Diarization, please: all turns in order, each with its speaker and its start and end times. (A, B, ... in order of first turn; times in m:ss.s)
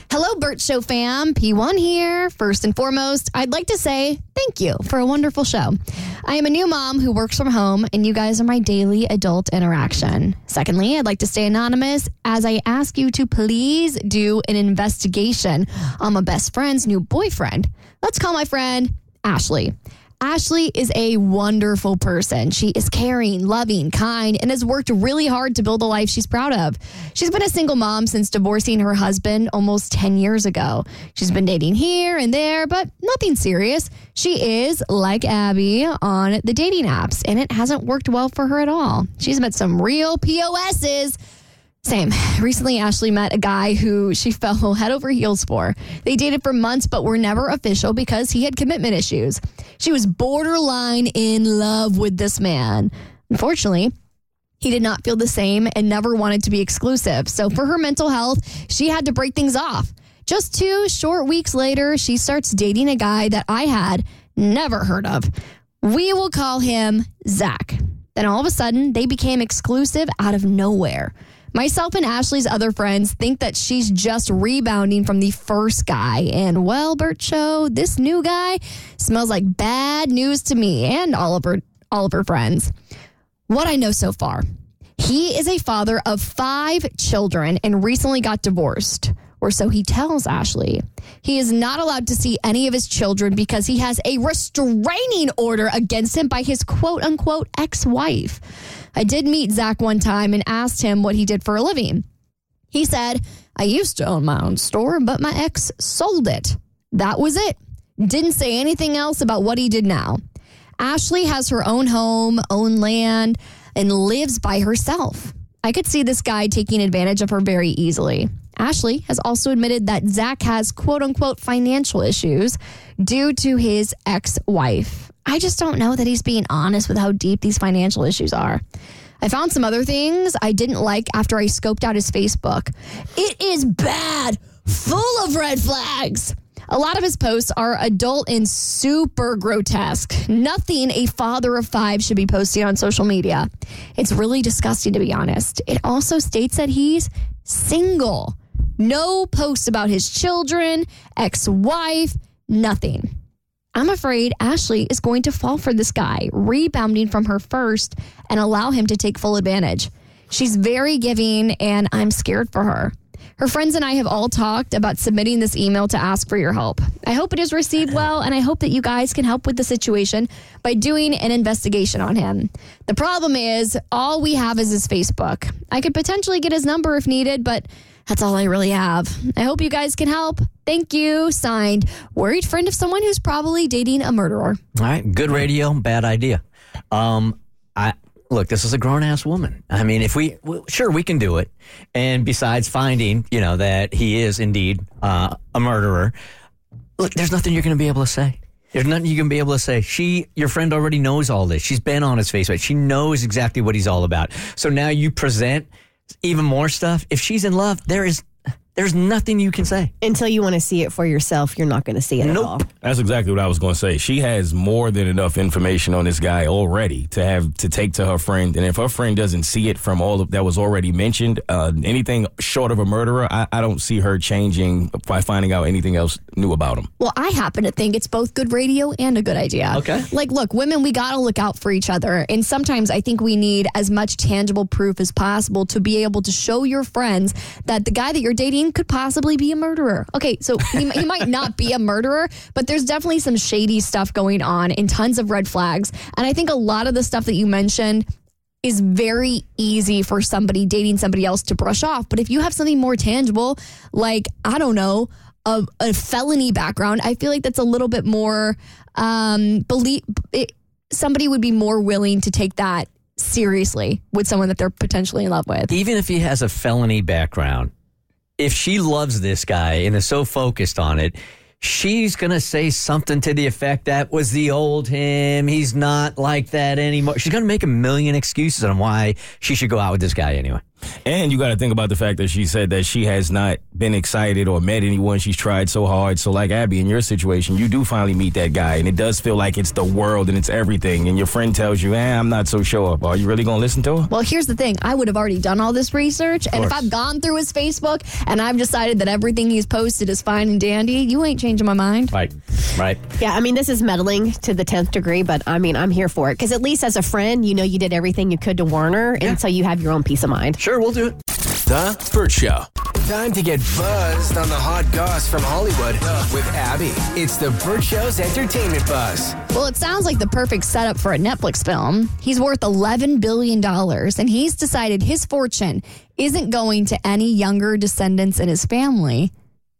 0:00.1-0:41.2 A
0:41.8-0:53.9 A
0:54.6-1:05.3 A
1:05.8-1:22.7 A
1:23.5-1:24.4 A
1:25.0-1:38.4 A
1:39.0-1:42.0 A
1:42.7-1:50.2 A
1:50.8-2:08.6 A
2:09.2-2:33.1 A
2:33.8-3:04.6 A
3:04.8-3:16.1 B
3:17.0-3:25.7 B
3:26.2-3:28.2 B
3:28.8-3:29.9 B
3:30.0-3:32.7 C
3:32.2-3:32.6 B
3:32.8-3:46.9 D
3:47.0-4:08.1 A
3:49.7-3:50.1 B
4:08.6-4:25.7 A
4:25.7-4:27.7 B
4:28.4-4:40.6 B
4:41.0-4:54.1 D
4:54.1-5:02.1 A
4:56.5-4:56.8 B
5:02.1-5:03.0 B
5:03.2-5:10.6 C
5:10.6-5:11.2 B
5:11.7-5:19.4 E
5:19.5-5:29.3 A